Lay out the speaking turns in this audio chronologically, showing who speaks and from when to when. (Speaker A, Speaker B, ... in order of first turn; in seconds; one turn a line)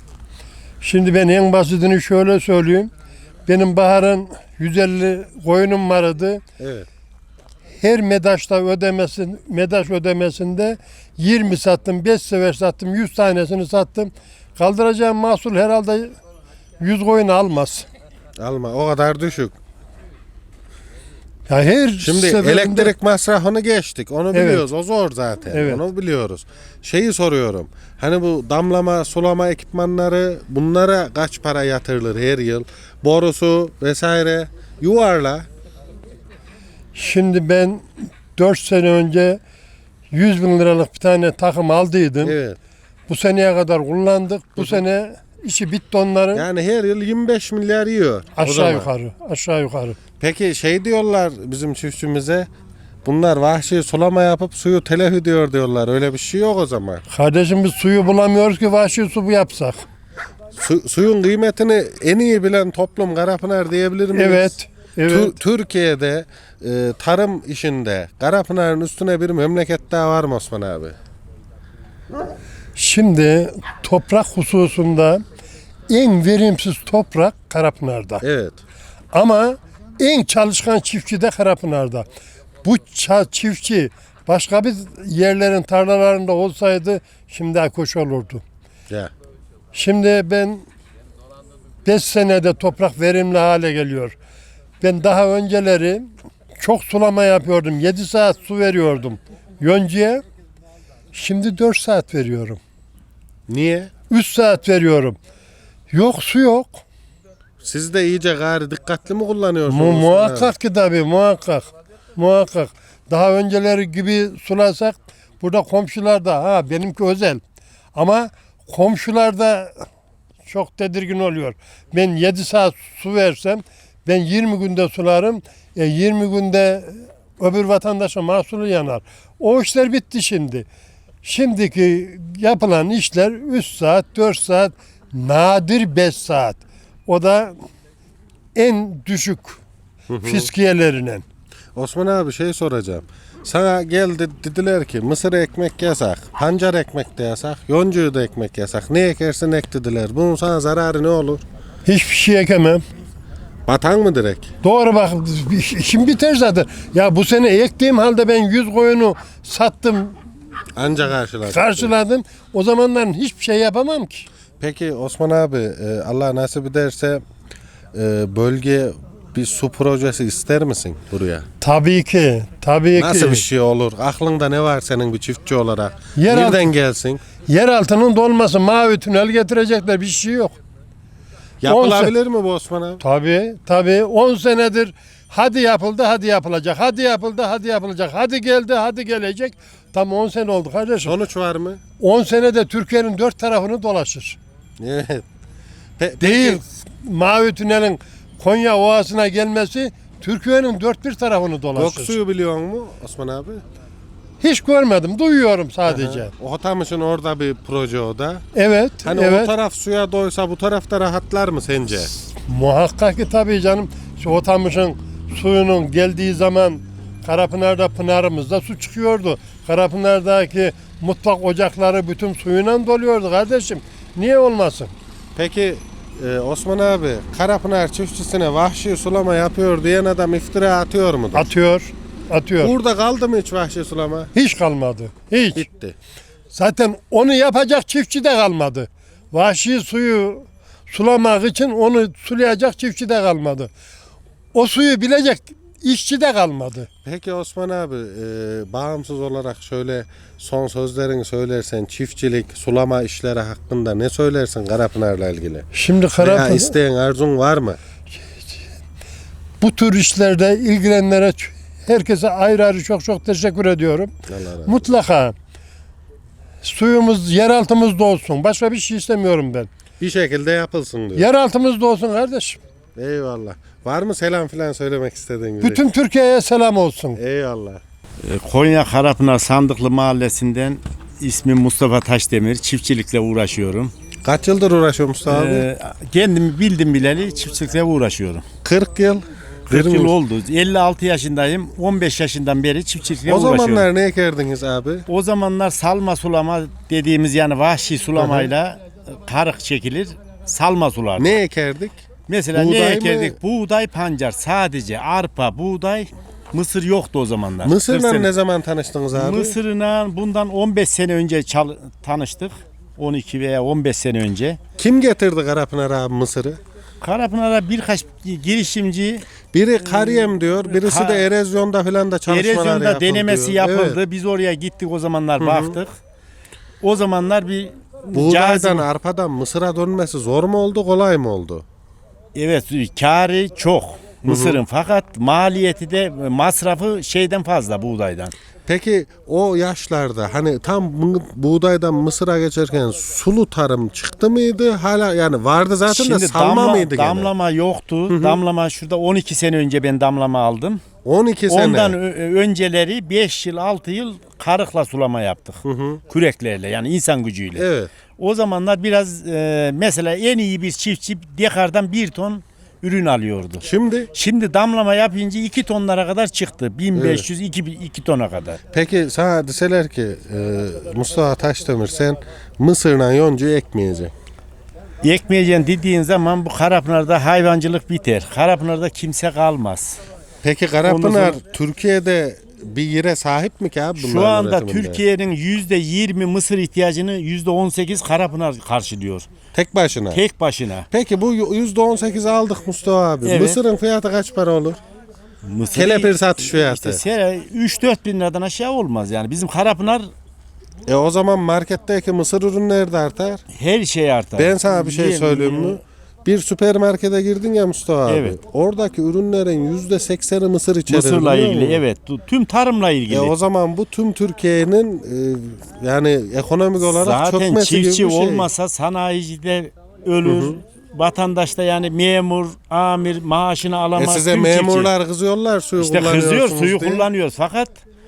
Speaker A: 0.8-2.9
Speaker A: 3.5-6.4
Speaker B: 6.6-6.9
Speaker A: 7.8-16.1
Speaker A: 16.8-17.9
Speaker B: 18.4-19.6
Speaker A: 21.5-22.9
Speaker B: 22.0-35.5
Speaker A: 24.3-24.6
Speaker A: 25.5-25.8
Speaker A: 36.9-39.4
Speaker A: 40.1-42.4
Speaker B: 42.2-42.6
Speaker A: 43.1-46.4
Speaker B: 46.3-48.9
Speaker A: 48.4-50.0
Speaker B: 50.2-52.5
Speaker B: 53.0-57.0
Speaker A: 57.1-59.8
Speaker B: 60.6-64.5
Speaker A: 64.1-65.3
Speaker B: 65.1-70.9
Speaker A: 72.8-75.2
Speaker A: 75.9-78.2
Speaker B: 78.2-78.6
Speaker A: 79.1-82.0
Speaker A: 82.6-88.4
Speaker A: 89.7-90.7
Speaker A: 91.8-94.2
Speaker A: 94.8-100.2
Speaker A: 101.1-102.6
Speaker B: 103.5-103.9
Speaker A: 104.1-105.2
Speaker A: 105.9-106.8
Speaker B: 107.6-110.5
Speaker A: 109.7-117.4
Speaker A: 118.0-119.8
Speaker A: 120.5-130.7
Speaker A: 131.2-137.6
Speaker A: 138.5-139.6
Speaker B: 140.1-140.5
Speaker A: 140.2-141.2
Speaker B: 141.7-151.4
Speaker A: 151.8-152.8
Speaker B: 153.7-154.5
Speaker A: 154.6-160.2
Speaker B: 160.8-161.9
Speaker A: 161.5-164.3
Speaker B: 164.6-167.2
Speaker B: 167.9-171.4
Speaker A: 171.6-173.4
Speaker B: 172.9-177.2
Speaker A: 176.2-176.7
Speaker A: 177.4-180.6
Speaker B: 181.6-183.0
Speaker A: 181.6-182.1
Speaker A: 183.0-191.1
Speaker B: 191.0-191.8
Speaker A: 192.0-194.4
Speaker B: 194.8-195.2
Speaker B: 196.0-196.6
Speaker A: 196.2-202.1
Speaker B: 201.7-203.6
Speaker A: 204.4-206.3
Speaker B: 205.9-208.4
Speaker A: 208.5-209.5
Speaker B: 209.0-212.1
Speaker A: 212.5-224.9
Speaker B: 225.3-231.5
Speaker A: 231.3-232.7
Speaker B: 232.6-234.3
Speaker A: 234.3-235.6
Speaker B: 235.5-235.9
Speaker A: 236.5-243.7
Speaker A: 244.5-246.9
Speaker B: 247.0-257.8
Speaker A: 255.7-256.7
Speaker A: 259.6-264.1
Speaker B: 264.3-264.9
Speaker A: 264.6-265.3
Speaker A: 266.6-269.7
Speaker B: 270.0-271.3
Speaker A: 271.1-272.6
Speaker B: 272.9-275.8
Speaker A: 275.6-277.2
Speaker B: 277.1-277.8
Speaker C: 278.2-283.9
Speaker B: 284.2-285.7
Speaker C: 285.2-288.4
Speaker B: 288.6-290.1
Speaker C: 289.7-293.9
Speaker B: 293.2-295.1
Speaker C: 295.1-301.4
Speaker B: 298.1-298.5
Speaker B: 301.2-302.0
Speaker C: 302.3-308.3
Speaker B: 302.5-303.4
Speaker B: 307.6-309.6
Speaker C: 309.1-314.6
Speaker B: 314.8-316.6
Speaker C: 317.0-319.2
Speaker B: 319.5-324.0
Speaker C: 319.8-321.2
Speaker C: 322.3-325.9
Speaker B: 325.4-325.8
Speaker C: 326.8-328.9
Speaker B: 328.1-331.6
Speaker C: 332.3-338.3
Speaker B: 334.2-334.6
Speaker B: 338.7-347.3
Speaker C: 345.9-350.8
Speaker B: 348.1-348.4
Speaker B: 351.0-352.0
Speaker C: 351.5-357.6
Speaker B: 355.6-356.0
Speaker B: 357.5-357.9
Speaker C: 358.2-368.6
Speaker B: 363.6-364.1
Speaker B: 366.9-367.2
Speaker B: 368.7-374.1
Speaker C: 375.0-380.0
Speaker B: 380.4-385.0
Speaker C: 380.8-381.4
Speaker C: 384.0-389.3
Speaker B: 389.5-390.2
Speaker C: 390.1-390.9
Speaker B: 390.9-394.8
Speaker C: 393.2-393.6
Speaker C: 395.4-400.1
Speaker B: 395.7-397.0
Speaker B: 400.9-403.4
Speaker C: 403.5-405.8
Speaker B: 404.4-411.8
Speaker C: 408.1-408.4
Speaker C: 410.9-413.3
Speaker B: 413.1-418.5
Speaker C: 416.9-424.9
Speaker B: 420.2-420.6
Speaker B: 423.9-427.1
Speaker C: 425.8-427.8